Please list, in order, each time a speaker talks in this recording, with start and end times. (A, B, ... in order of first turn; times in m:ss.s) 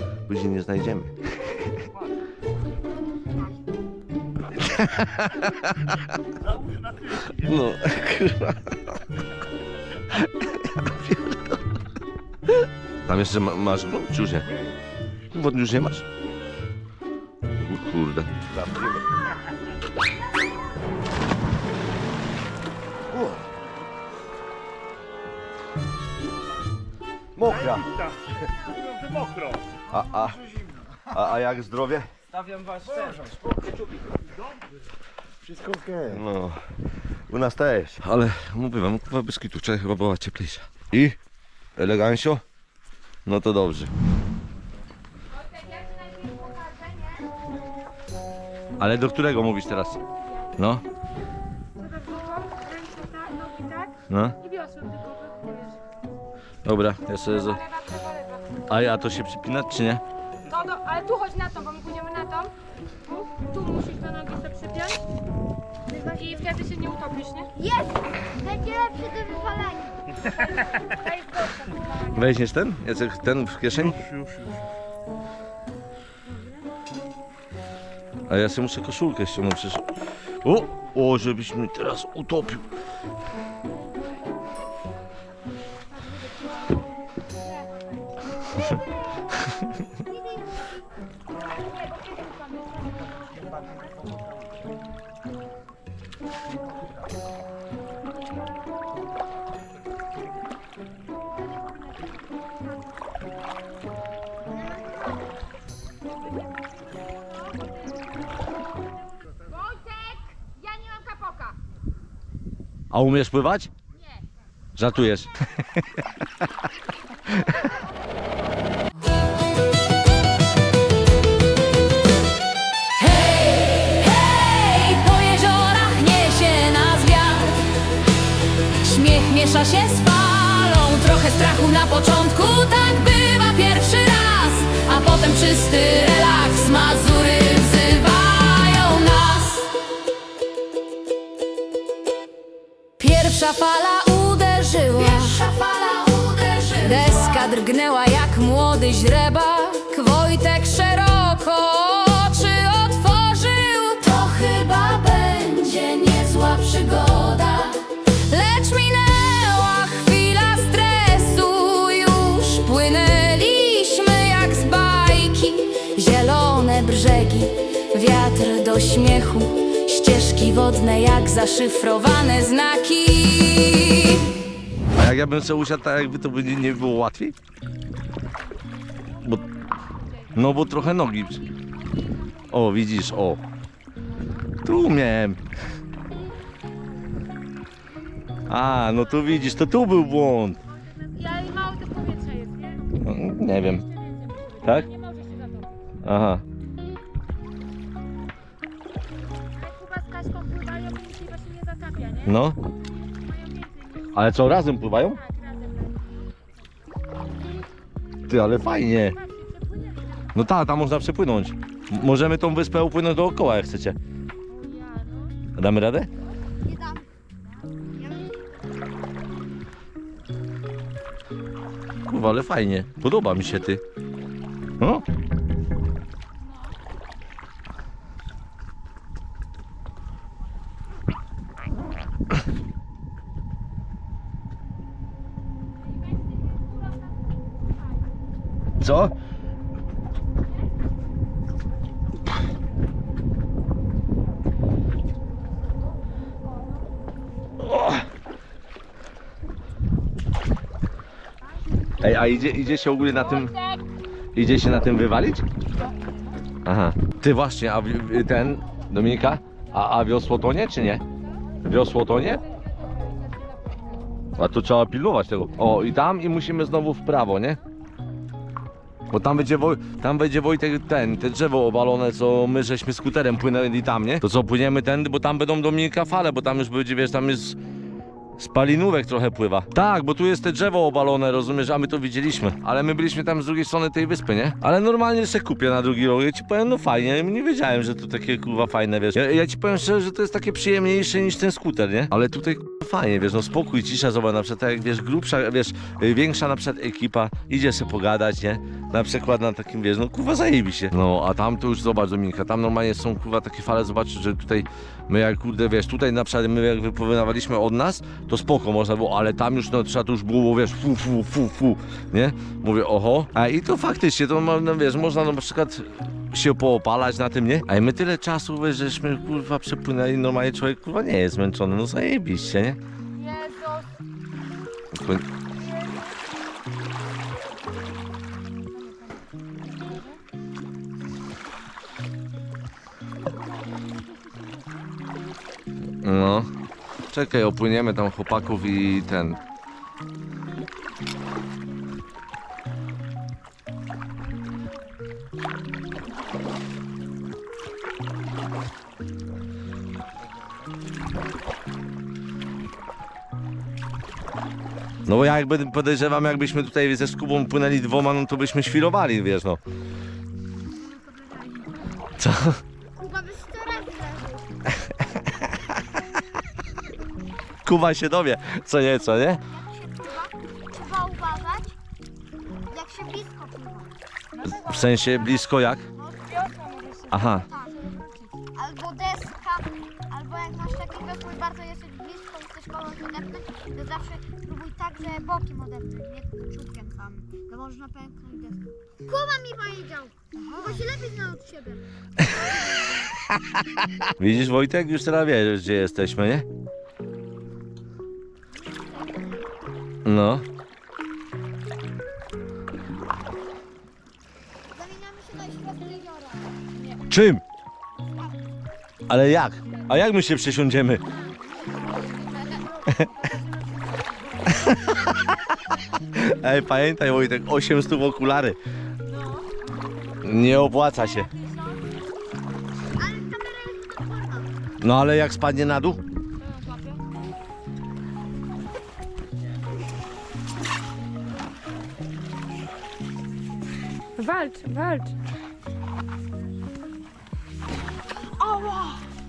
0:00.3-0:01.1 A
0:04.6-0:05.5 A
0:06.7-0:07.3 B
0:07.3-0:08.8 A
0:10.1-0:11.6 A
0:13.0-0:14.5 A
0:15.3-0:16.0 A
0:17.6-0:19.0 A
0:23.1-0:23.4 A
0:27.4-0:27.9 A
0:27.4-0:29.6 B
0:29.9-0:30.4 A
0:31.1-0:32.1 A
0:35.7-0:36.6 A
0:37.3-0:41.2 A
0:41.8-0:42.4 A
0:43.2-0:43.9 A
0:45.7-0:47.2 C
0:48.8-0:50.0 A
0:50.6-0:50.8 A
0:51.8-0:55.8 C
0:54.1-0:54.4 A
0:56.6-0:57.6 A
0:57.3-0:58.5 C
0:58.7-1:00.0 A
1:00.5-1:02.5 C
1:03.0-1:05.0 C
1:05.9-1:07.5 C
1:07.6-1:10.1 D
1:10.4-1:12.2 C
1:12.1-1:14.0 A
1:14.0-1:14.6 B
1:18.3-1:19.8 A
1:20.4-1:22.6 A
1:31.6-1:33.8 C
1:44.5-1:45.3 D
1:49.5-1:51.6 C
1:52.9-1:53.7 A
1:54.8-1:55.6 A
2:03.0-2:07.5 E
2:08.8-2:19.7 E
2:23.0-2:54.2 E
2:26.9-2:27.2 C
2:54.9-2:57.4 A
2:59.1-2:59.4 A
3:00.3-3:01.4 A
3:02.5-3:03.4 A
3:04.6-3:05.4 A
3:08.5-3:10.6 A
3:10.8-3:13.0 C
3:13.0-3:13.8 A
3:13.8-3:15.8 C
3:16.0-3:16.4 A
3:19.6-3:22.3 C
3:22.2-3:22.6 A
3:23.1-3:24.1 C
3:24.1-3:25.2 A
3:25.2-3:26.0 C
3:28.3-3:29.2 A
3:29.1-3:30.3 C
3:30.3-3:34.0 A
3:34.5-3:35.4 C
3:35.6-3:36.1 A
3:36.6-3:37.1 D
3:37.9-3:38.4 D
3:42.1-3:43.8 A
3:44.8-3:45.0 A
3:58.8-3:59.1 A
4:07.7-4:08.0 A
4:12.0-4:13.6 A
4:14.3-4:15.4 A
4:16.6-4:21.0 A
4:21.6-4:22.4 A
4:22.4-4:23.8 C
4:24.3-4:27.6 A
4:29.1-4:37.6 A
4:38.4-5:22.8 A
5:23.1-5:24.0 C
5:24.9-5:25.3 A
5:25.6-5:26.0 C
5:28.7-5:30.2 C
5:36.0-5:36.5 A
5:37.1-5:39.4 A
5:55.0-5:59.6 A
6:01.0-6:01.6 D
6:02.2-6:02.6 A
6:02.9-6:04.5 D
6:07.6-6:09.4 A
6:09.5-6:11.8 D
6:12.7-6:13.9 D
6:14.4-6:15.3 C
6:14.4-6:15.8 A
6:16.0-6:16.3 D
6:16.2-6:18.2 C
6:17.1-6:17.4 A
6:17.4-6:17.8 D
6:18.5-6:31.8 D
6:34.2-6:36.4 A
6:38.7-6:39.5 D
6:40.0-6:40.4 A
6:44.7-6:46.6 D
6:47.1-6:47.4 A
6:49.1-6:51.0 A
6:51.3-6:55.2 C
6:54.5-6:55.2 A
6:56.1-6:58.6 A
6:59.1-6:59.6 C
7:00.2-7:01.3 A
7:01.3-7:01.8 C
7:03.0-7:04.5 D
7:04.8-7:06.0 A
7:06.4-7:07.0 C
7:14.2-7:15.1 C
7:18.4-7:18.9 C